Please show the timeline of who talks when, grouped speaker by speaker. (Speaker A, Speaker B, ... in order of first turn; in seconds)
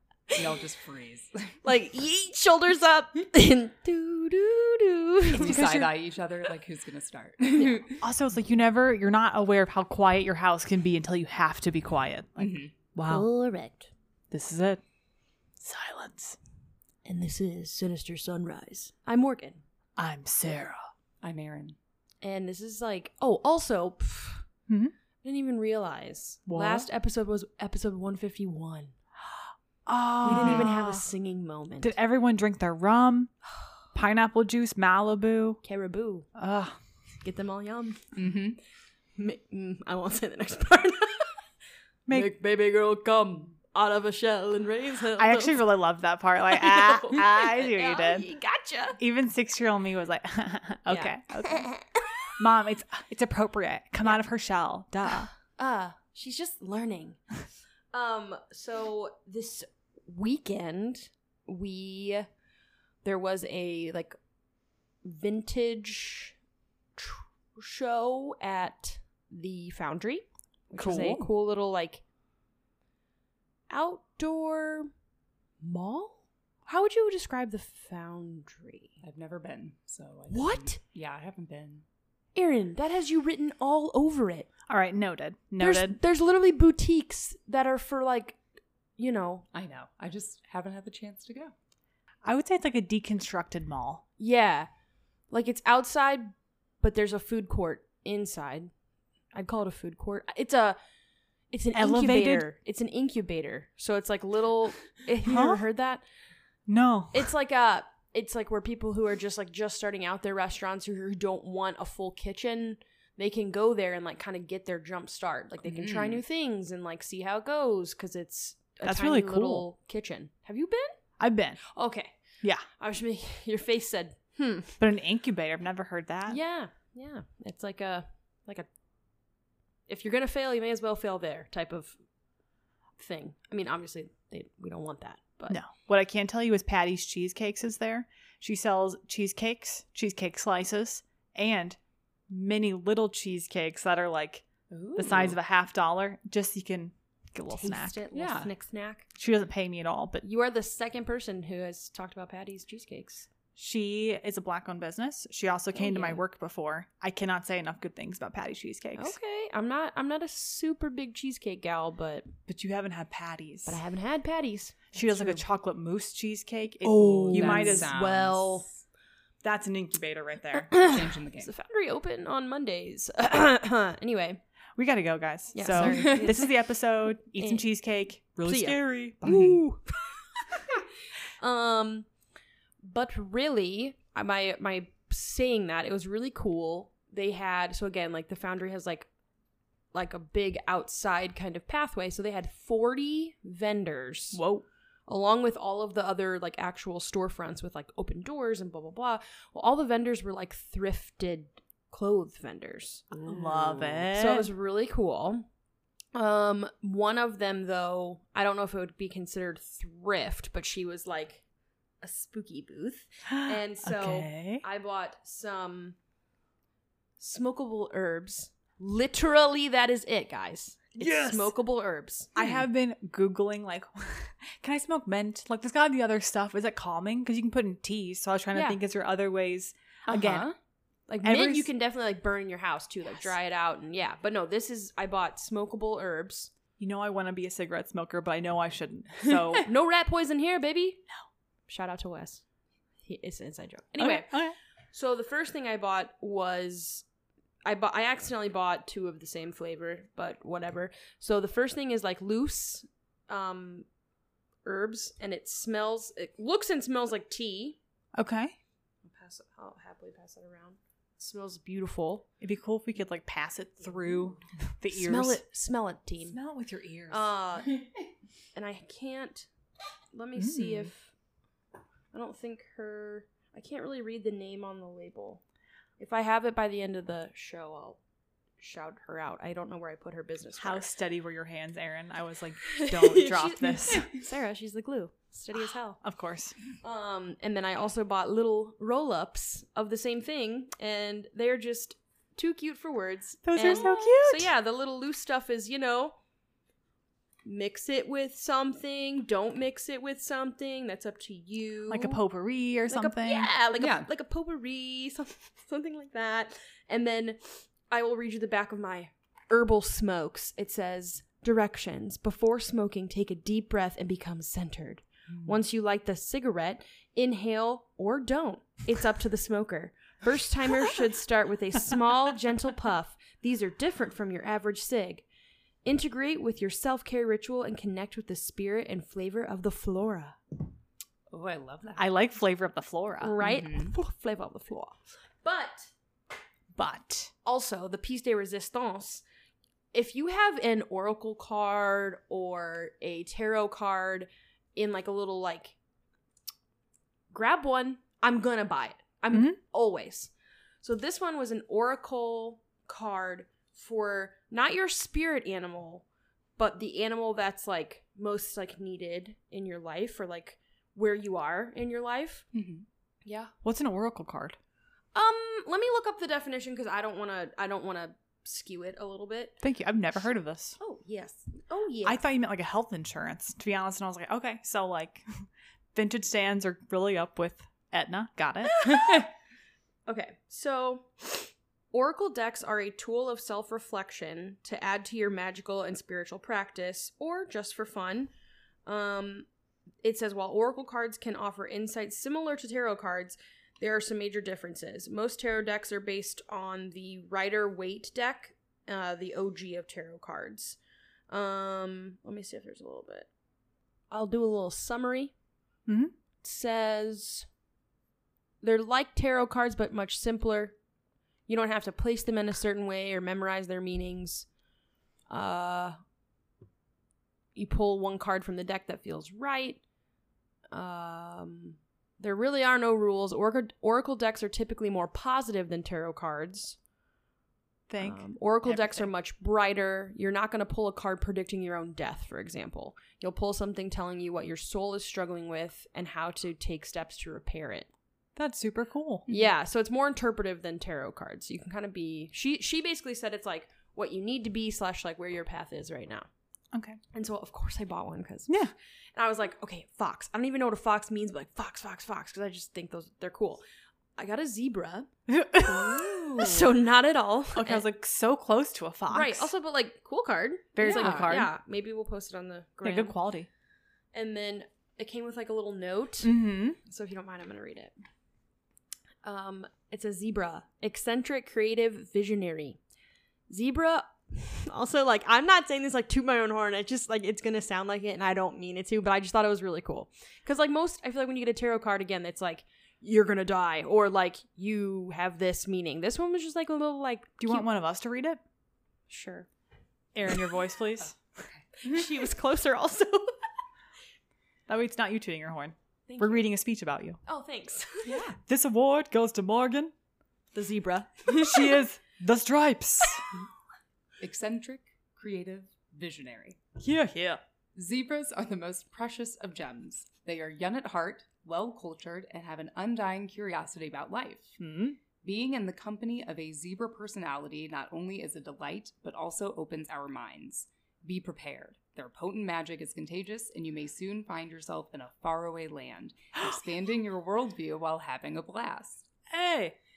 Speaker A: 0.3-1.6, 5.4-8.0, 12.4-12.7, 21.2-21.8, 30.3-30.7, 38.2-38.6, 79.0-81.8, 89.5-91.5, 115.7-116.2, 144.7-145.4, 148.1-148.5, 166.9-168.8, 170.7-171.5, 175.8-176.2, 203.2-204.1, 230.1-230.5, 303.8-304.1, 331.3-332.1, 333.4-333.9, 362.5-362.9, 456.3-456.6, 460.8-461.3, 498.1-498.4, 504.2-506.6, 507.8-514.6, 515.2-529.1
Speaker B: 1.6-5.9, 13.1-13.9, 17.1-19.6, 22.2-24.5, 25.2-28.9, 30.2-31.9, 35.6-36.3, 37.2-38.2, 39.2-41.4, 42.1-45.6, 46.5-49.0, 50.9-52.0, 55.5-57.2, 57.9-62.3, 63.0-64.2, 65.0-66.3, 67.0-72.0, 73.7-74.9, 75.6-79.0, 80.3-80.8, 82.3-84.5, 85.6-88.4, 89.0-89.5, 94.2-94.7, 95.3-98.7, 99.3-100.8, 101.5-106.0, 107.1-121.0, 121.7-122.2, 122.8-124.8, 126.3-128.7, 129.9-132.0, 133.0-135.6, 147.5-149.1, 150.2-153.3, 155.7-156.2, 159.0-162.3, 163.7-165.4, 166.9-168.7, 170.7-174.4, 175.5-176.5, 178.4-180.8, 181.4-182.1, 182.8-189.1, 189.9-194.4, 195.1-203.1, 204.1-205.5, 206.2-211.4, 212.0-216.0, 217.2-222.3, 228.5-228.8, 231.1-236.5, 239.6-241.0, 241.7-242.4, 243.0-244.4, 244.9-247.1, 247.7-253.9, 254.7-257.8, 259.1-262.3, 264.9-266.4, 267.1-267.8, 268.6-269.5, 270.1-271.1, 272.1-275.4, 276.0-278.0, 278.6-280.9, 282.7-286.0, 286.8-296.1, 297.4-302.2, 302.9-325.2, 325.9-330.4, 333.2-335.9, 337.4-339.2, 339.9-345.8, 347.3-356.1, 356.6-362.5, 363.2-363.5, 365.1-369.6, 370.8-372.2, 378.7-379.3, 380.1-388.3, 388.9-389.5, 390.0-400.8, 401.3-403.3, 404.1-405.3, 406.4-407.5, 408.6-410.8, 411.5-414.5, 415.3-416.0, 417.6-419.8, 420.7-426.8, 428.0-437.9, 439.3-446.3, 447.1-453.6, 454.2-457.8, 459.1-463.2, 464.1-467.9, 469.2-472.8, 473.5-487.7, 489.1-489.5, 491.8-493.4, 496.1-496.5, 497.2-498.2, 500.5-501.8
Speaker C: 5.4-5.8, 8.0-13.3, 14.3-14.8, 15.6-16.4, 20.0-20.9, 24.7-24.9, 26.5-26.9, 29.9-31.1, 31.8-33.3, 33.9-35.6, 36.4-36.8, 42.1-42.3, 45.1-48.3, 49.0-51.7, 52.4-55.3, 70.7-71.3, 84.7-86.0, 92.2-94.0, 101.7-102.5, 105.2-105.6, 106.7-107.3, 118.8-119.7, 121.2-121.6, 124.8-126.4, 135.5-141.8, 142.3-148.0, 149.2-150.2, 153.6-159.2, 162.5-163.8, 164.9-167.9, 169.4-170.7, 174.8-179.6, 194.3-194.7, 203.2-204.5, 213.3-214.6, 221.0-221.5, 222.4-230.5, 231.2-231.7, 236.8-239.7, 244.0-244.6, 258.1-258.6, 262.4-265.4, 266.3-267.3, 270.4-270.9, 280.6-284.1, 286.0-286.6, 293.4-294.5, 301.9-303.5, 332.0-333.4, 336.8-337.3, 363.6-364.6, 369.6-370.8, 372.0-375.4, 375.9-379.0, 405.9-406.1, 427.9-429.1, 438.4-439.3, 446.7-447.0, 455.3-456.4, 457.6-459.5, 460.8-461.5, 462.8-463.5, 466.2-466.8, 487.4-488.4, 490.1-491.2, 494.7-497.2, 498.4-499.9, 501.3-503.2, 506.8-507.4, 514.6-515.0, 529.3-529.8